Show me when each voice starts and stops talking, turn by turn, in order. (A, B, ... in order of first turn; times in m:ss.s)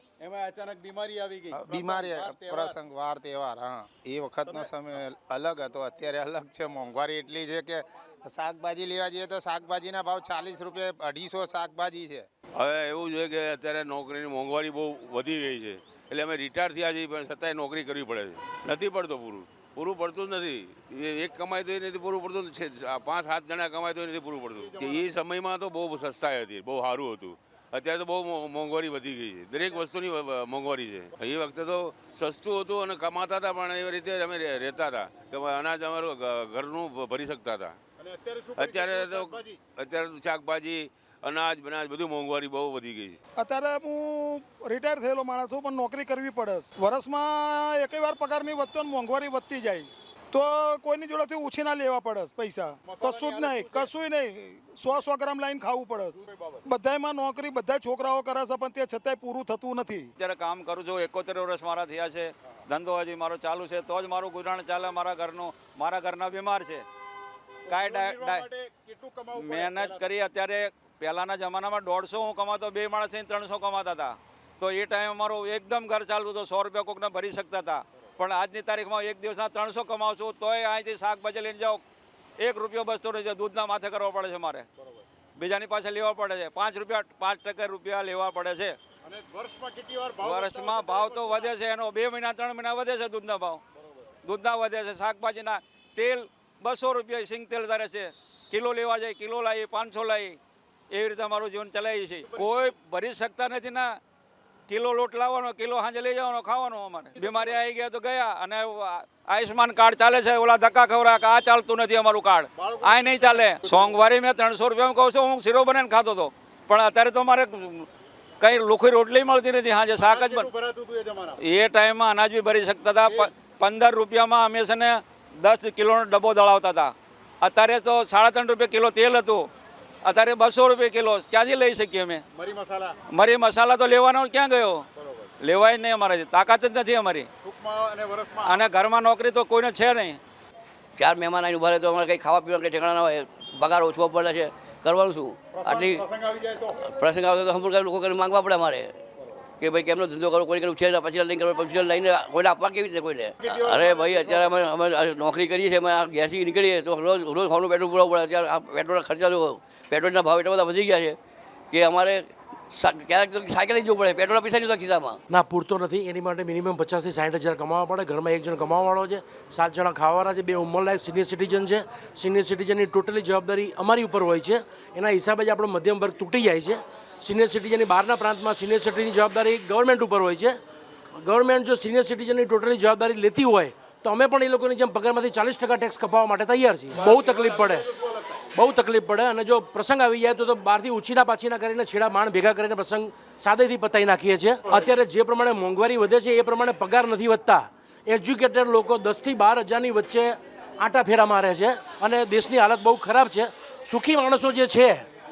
0:00.2-0:02.8 A
0:01.5-0:12.3 B
0:04.5-0:04.7 A
0:12.6-0:37.8 C
0:24.5-0:25.1 A
0:38.0-0:39.6 A
0:38.6-0:43.2 C
0:43.4-1:00.1 D
0:52.8-0:53.9 A
0:56.1-0:56.7 A
1:00.2-1:06.8 E
1:07.7-1:10.1 A
1:07.7-1:08.5 E
1:09.4-1:21.8 E
1:22.4-1:24.7 E
1:24.8-1:25.1 A
1:25.4-1:28.8 E
1:29.0-1:31.6 A
1:30.2-1:33.6 E
1:33.8-1:34.1 A
1:34.2-1:40.4 E
1:40.9-1:44.0 E
1:42.2-1:42.5 A
1:44.7-1:57.9 E
1:47.2-1:47.6 A
1:52.6-1:54.1 A
1:58.4-2:00.5 E
2:00.0-2:01.4 A
2:01.4-2:09.5 E
2:10.0-2:12.2 E
2:12.3-2:12.9 A
2:13.1-2:14.8 E
2:15.0-2:15.3 A
2:15.4-2:17.3 E
2:17.4-2:18.6 A
2:18.4-2:20.2 E
2:21.0-2:26.0 F
2:25.5-2:26.8 A
2:26.8-2:29.0 F
2:29.6-2:41.2 F
2:33.4-2:34.5 A
2:41.7-2:45.2 F
2:45.3-3:00.6 G
3:01.2-3:07.8 G
3:06.9-3:08.5 A
3:08.6-3:25.0 G